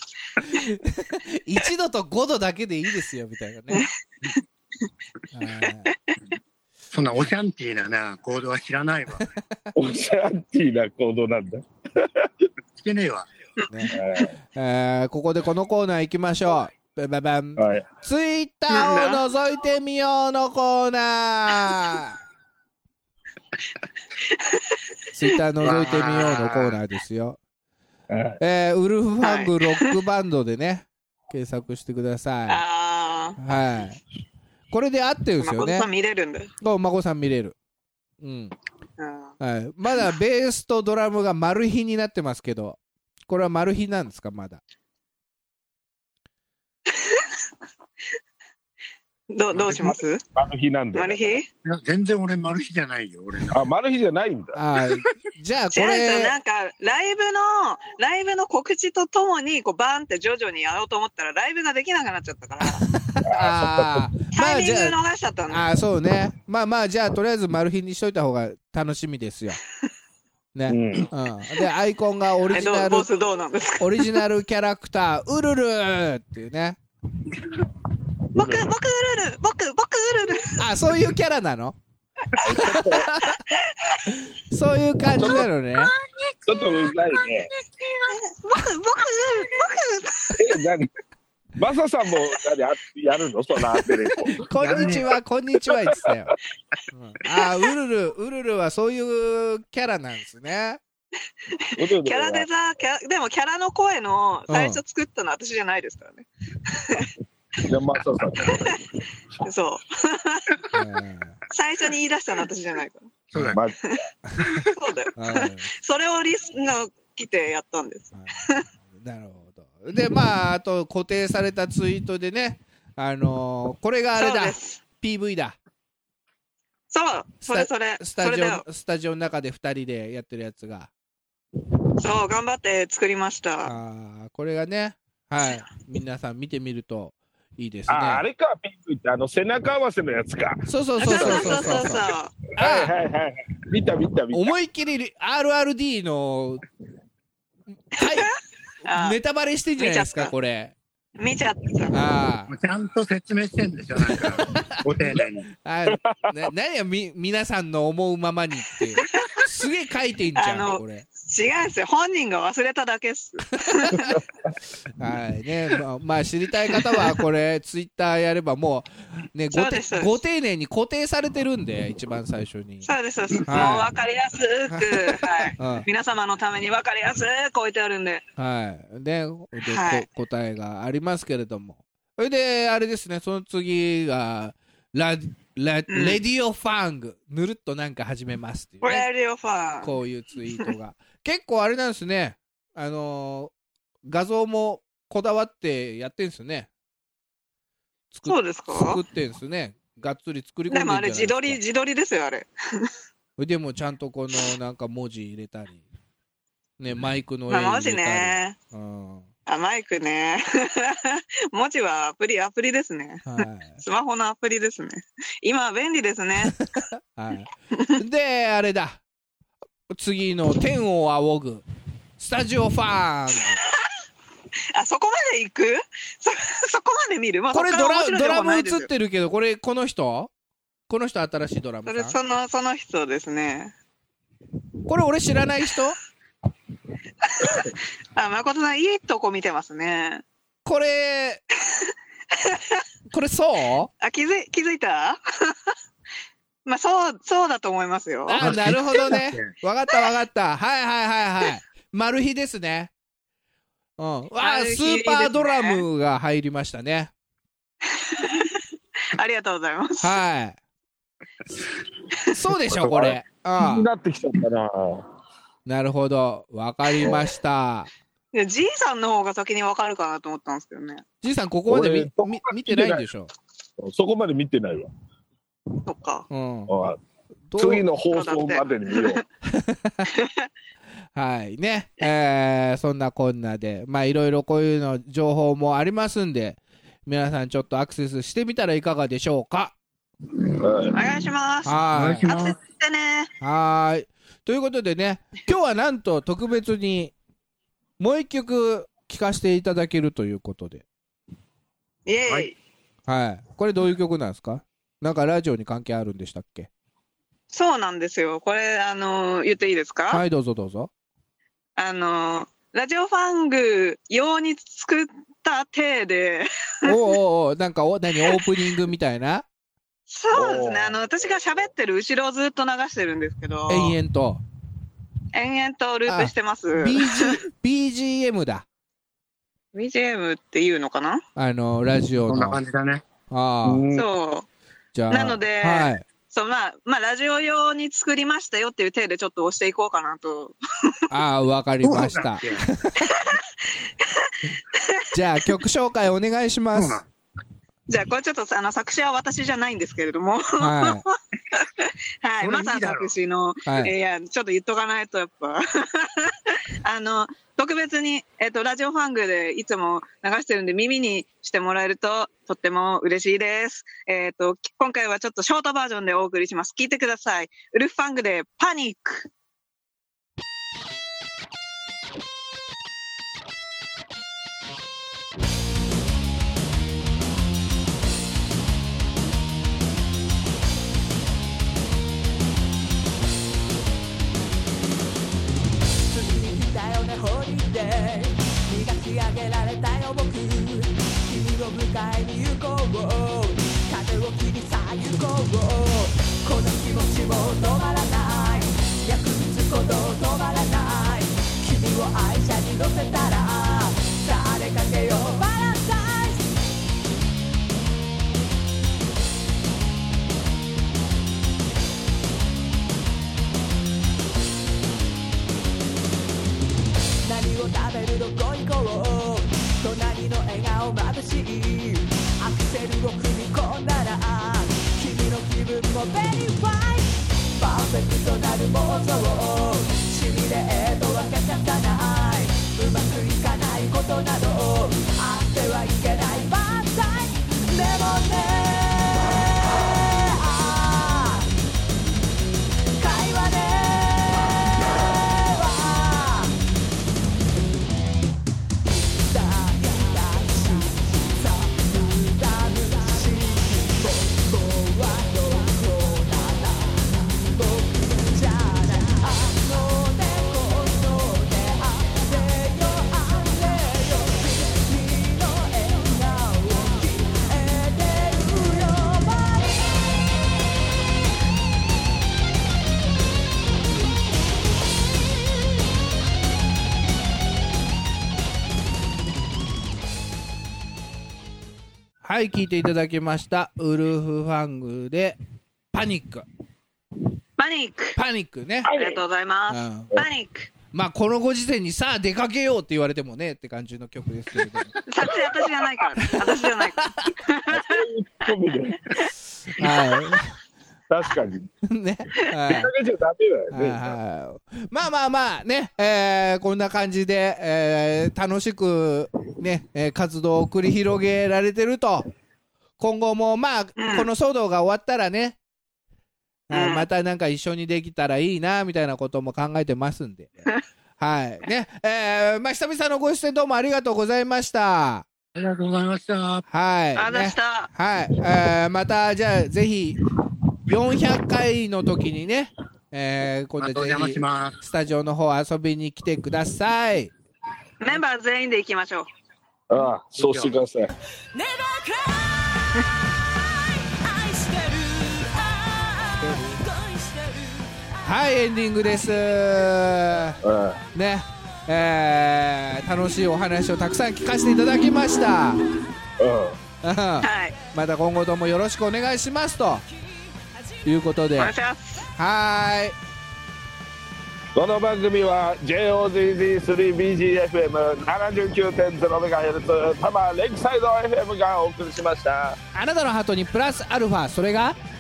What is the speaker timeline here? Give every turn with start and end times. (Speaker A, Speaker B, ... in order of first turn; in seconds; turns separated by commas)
Speaker A: 0.4-3.9, Speaker A: 5.3-5.9, Speaker B: 6.9-9.3, Speaker A: 9.2-9.7, Speaker C: 9.7-12.3, Speaker B: 12.8-13.3, Speaker A: 13.7-22.2, Speaker C: 13.9-14.3, Speaker C: 17.6-17.9, Speaker D: 18.7-19.2, Speaker D: 24.3-24.6, Speaker A: 25.1-27.4, Speaker B: 25.6-26.8, Speaker C: 28.1-28.4, Speaker A: 28.4-32.6, Speaker D: 29.2-29.9, Speaker D: 32.5-33.4, Speaker A: 33.4-34.0, Speaker A: 34.7-35.9, Speaker D: 35.4-36.5, Speaker A: 36.6-37.5, Speaker A: 38.2-38.5, Speaker D: 39.0-39.3, Speaker A: 39.4-44.6, Speaker D: 46.9-47.3, Speaker D: 49.3-50.2, Speaker B: 49.5-50.0, Speaker C: 50.4-51.4, Speaker D: 50.9-51.5, Speaker B: 51.6-53.6, Speaker C: 53.5-54.6, Speaker A: 54.5-56.4, Speaker D: 55.7-62.9, Speaker A: 62.6-65.0, Speaker C: 63.2-64.0, Speaker D: 64.3-65.7, Speaker A: 65.5-69.6, Speaker A: 70.5-73.1, Speaker C: 70.7-71.1, Speaker D: 72.5-74.2, Speaker A: 73.8-76.8, Speaker C: 78.3-78.7, Speaker D: 78.3-80.6, Speaker A: 80.6-81.8, Speaker C: 82.4-83.1, Speaker A: 82.4-83.4, Speaker D: 83.2-84.0, Speaker A: 84.1-85.9, Speaker C: 85.2-85.5, Speaker B: 85.8-88.2, Speaker C: 86.5-87.5, Speaker D: 88.1-90.4, Speaker C: 90.4-90.9, Speaker C: 91.6-94.9, Speaker A: 94.3-96.3, Speaker B: 94.6-95.1, Speaker A: 96.9-100.8, Speaker D: 101.5-107.1, Speaker C: 101.8-102.5, Speaker A: 104.5-104.8, Speaker C: 107.6-108.8, Speaker D: 109.4-110.7, Speaker A: 110.7-111.4, Speaker D: 111.5-113.1, Speaker B: 113.3-113.6, Speaker D: 113.9-118.7, Speaker A: 114.3-115.7, Speaker A: 118.9-125.6, Speaker D: 124.2-124.8, Speaker D: 126.9-128.6, Speaker A: 127.4-130.9, Speaker D: 132.0-133.8, Speaker A: 133.7-138.2, Speaker C: 137.9-144.5, Speaker A: 140.7-142.1, Speaker D: 141.0-142.3, Speaker A: 142.6-142.9, Speaker A: 144.3-146.6, Speaker A: 147.9-148.3, Speaker D: 148.8-149.2, Speaker A: 148.9-150.8, Speaker D: 149.8-150.3, Speaker D: 151.2-151.9, Speaker A: 151.9-152.5, Speaker B: 152.5-155.5, Speaker A: 154.1-155.1, Speaker A: 155.6-161.1, Speaker C: 155.9-156.2, Speaker D: 159.0-159.4, Speaker D: 160.4-164.2, Speaker A: 163.6-164.0, Speaker A: 165.0-172.9, Speaker D: 169.5-170.2, Speaker D: 172.8-178.2, Speaker A: 173.5-173.9, Speaker A: 174.7-175.9, Speaker A: 178.4-189.1, Speaker D: 179.6-180.1, Speaker D: 185.9-186.2, Speaker D: 188.8-189.9, Speaker A: 189.8-193.5, Speaker A: 194.1-196.7, Speaker A: 198.1-201.6, Speaker D: 198.3-199.0, Speaker D: 200.7-202.9, Speaker A: 203.4-205.8, Speaker A: 206.8-209.3, Speaker D: 207.5-208.6, Speaker D: 209.5-216.7, Speaker A: 213.3-213.8, Speaker A: 216.6-219.0, Speaker A: 219.9-221.7, Speaker A: 222.2-223.6, Speaker D: 224.7-228.9, Speaker A: 227.5-230.3, Speaker A: 230.9-232.2, Speaker D: 231.9-233.7, Speaker A: 234.9-236.0, Speaker D: 237.2-240.2, Speaker A: 240.7-241.4, Speaker D: 241.7-242.8, Speaker A: 243.1-243.9, Speaker D: 244.0-245.7, Speaker D: 246.7-248.6, Speaker A: 248.3-252.9, Speaker B: 248.4-249.5, Speaker A: 254.0-257.1, Speaker D: 254.4-255.8, Speaker D: 257.9-258.6, Speaker D: 259.1-260.2, Speaker A: 260.0-260.6, Speaker A: 262.3-263.9, Speaker C: 262.7-265.1, Speaker A: 265.7-267.9, Speaker D: 268.3-271.0, Speaker A: 271.2-273.3, Speaker C: 271.7-273.1, Speaker C: 273.8-274.9, Speaker D: 275.9-276.3, Speaker A: 276.3-276.7, Speaker C: 276.7-277.0, Speaker A: 277.5-277.9, Speaker C: 277.6-279.2, Speaker D: 278.1-279.2, Speaker A: 279.4-280.1, Speaker D: 280.1-280.5, Speaker A: 281.1-289.8, Speaker C: 290.6-291.0, Speaker D: 290.9-293.3, Speaker A: 291.6-292.3, Speaker B: 291.9-292.6, Speaker A: 293.4-297.1, Speaker A: 298.0-300.8, Speaker D: 302.1-302.6, Speaker A: 303.1-306.7, Speaker D: 307.5-310.2, Speaker A: 310.1-310.9, Speaker D: 311.8-316.9, Speaker A: 316.9-319.4, Speaker D: 320.1-324.0, Speaker C: 320.3-321.0, Speaker A: 323.7-324.4, Speaker D: 325.3-327.4, Speaker A: 326.1-328.7, Speaker D: 329.7-331.2, Speaker A: 331.4-332.6, Speaker B: 332.3-333.0, Speaker A: 333.3-333.9, Speaker C: 333.6-334.1, Speaker D: 333.9-334.5, Speaker A: 334.9-336.1, Speaker D: 335.1-341.0, Speaker A: 341.1-343.2, Speaker B: 341.8-342.7, Speaker D: 343.1-343.4, Speaker D: 344.0-345.1, Speaker A: 345.1-347.0, Speaker B: 346.7-347.1, Speaker D: 347.9-369.3, Speaker A: 350.6-351.0, Speaker B: 352.4-353.1, Speaker A: 353.7-353.9, Speaker E: 386.1-406.5, Speaker E: 417.2-441.5, Speaker E: 443.0-446.6, Speaker E: 448.9-470.0, Speaker A: 482.2-485.4, Speaker A: 485.9-486.5, Speaker D: 487.6-488.2, Speaker A: 488.2-488.9, Speaker C: 488.9-489.2, Speaker D: 488.9-490.7, Speaker A: 489.7-490.1, Speaker A: 490.9-495.4, Speaker D: 495.1-498.0, Speaker A: 496.2-497.3, Speaker C: 497.7-499.2, Speaker A: 499.7-500.6, Speaker C: 501.1-501.7, Speaker A: 501.8-502.9, Speaker C: 502.7-504.1, Speaker A: 503.7-512.3, Speaker A: 513.0-515.6, Speaker D: 514.0-514.3, Speaker A: 516.7-525.2, Speaker D: 516.7-517.1, Speaker B: 525.6-526.6, Speaker A: 526.7-530.2, Speaker D: 527.2-527.9, Speaker A: 530.9-537.3, Speaker B: 533.8-534.8, Speaker D: 538.0-539.3, Speaker C: 539.9-541.1, Speaker B: 540.4-540.7, Speaker E: 541.5-548.0, Speaker A: 546.4-546.8, Speaker A: 548.2-550.6, Speaker C: 550.6-551.0, Speaker A: 551.1-555.8, Speaker C: 556.4-556.8, Speaker A: 557.0-560.0, Speaker D: 557.4-557.8, Speaker A: 561.0-561.7, Speaker D: 561.6-562.3, Speaker A: 562.4-563.2, Speaker C: 564.8-572.8, Speaker A: 573.0-575.0